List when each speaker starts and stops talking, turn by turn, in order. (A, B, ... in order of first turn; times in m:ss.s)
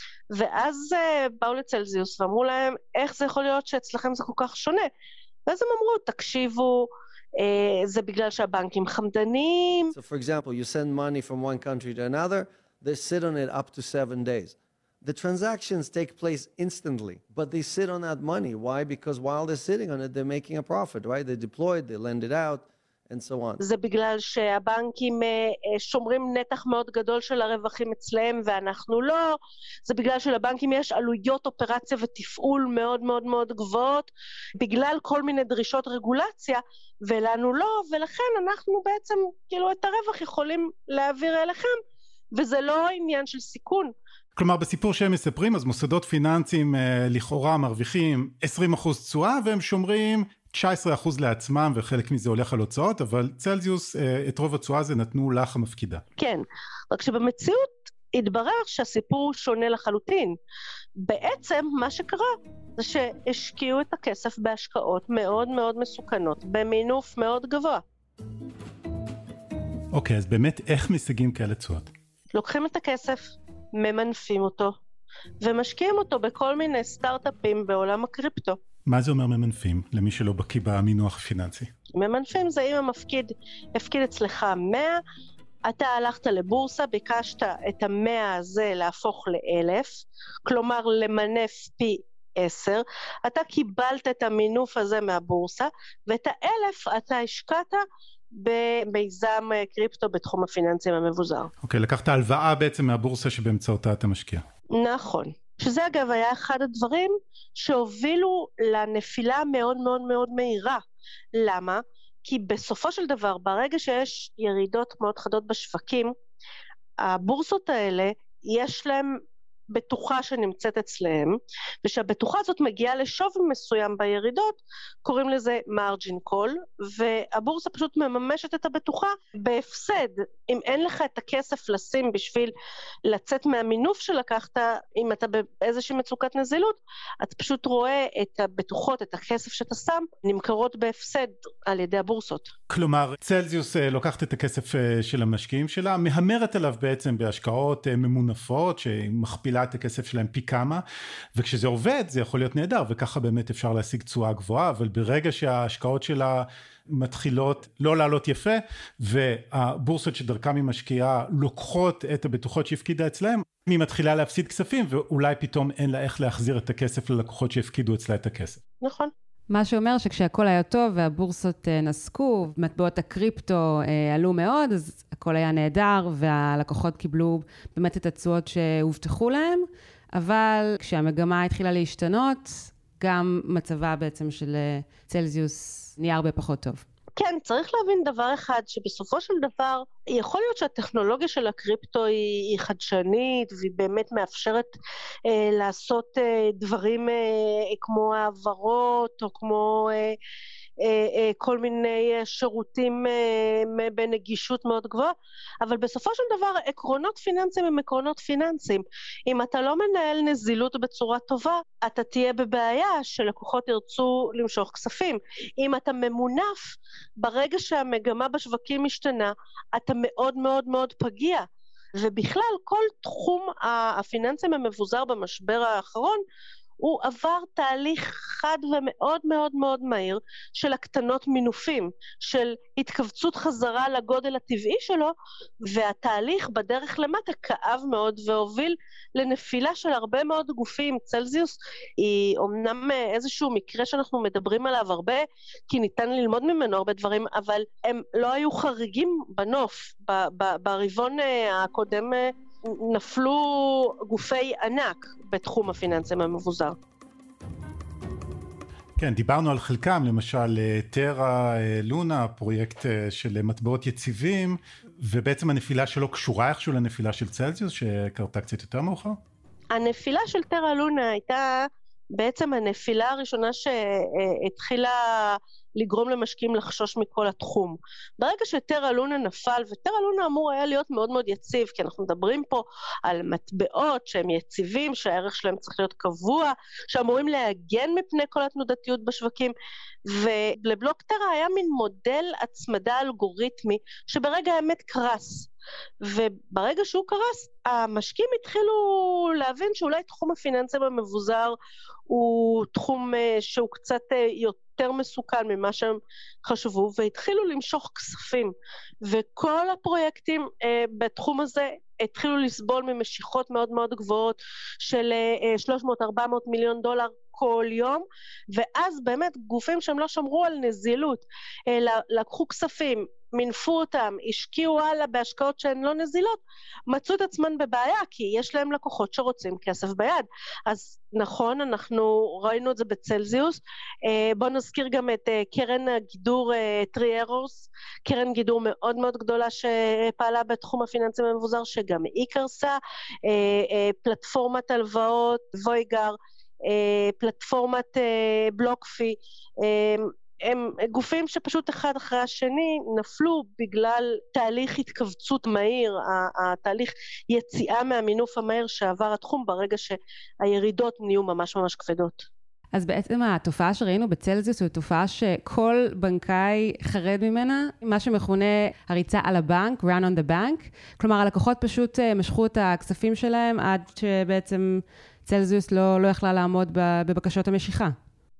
0:00.3-0:04.9 A
0:05.5-0:09.9 A
0:09.9-0:23.6 B
0:23.6-0:41.8 A
0:42.3-0:43.9 A
0:44.4-0:56.0 C
0:56.2-1:00.4 A
1:01.0-1:07.8 A
1:09.9-1:11.9 C
1:12.3-1:14.7 A
1:15.4-1:18.6 A
1:18.8-1:21.7 C
1:21.9-1:25.0 A
1:25.6-1:41.5 A
1:41.6-1:44.4 C
1:44.7-1:50.8 A
1:51.3-1:56.1 A
1:57.0-2:12.5 A
2:13.0-2:22.5 A
2:22.7-2:30.8 C
2:31.3-2:48.6 C
2:48.8-2:49.1 A
2:49.5-3:06.8 D
3:07.2-3:14.7 A
3:15.2-3:20.2 A
3:20.8-3:46.2 A
3:46.8-4:16.8 A
4:19.0-4:29.2 C
4:29.7-4:49.5 A
4:50.1-4:55.5 A
4:56.0-5:01.6 A
5:02.1-6:02.2 A
6:02.7-6:17.9 D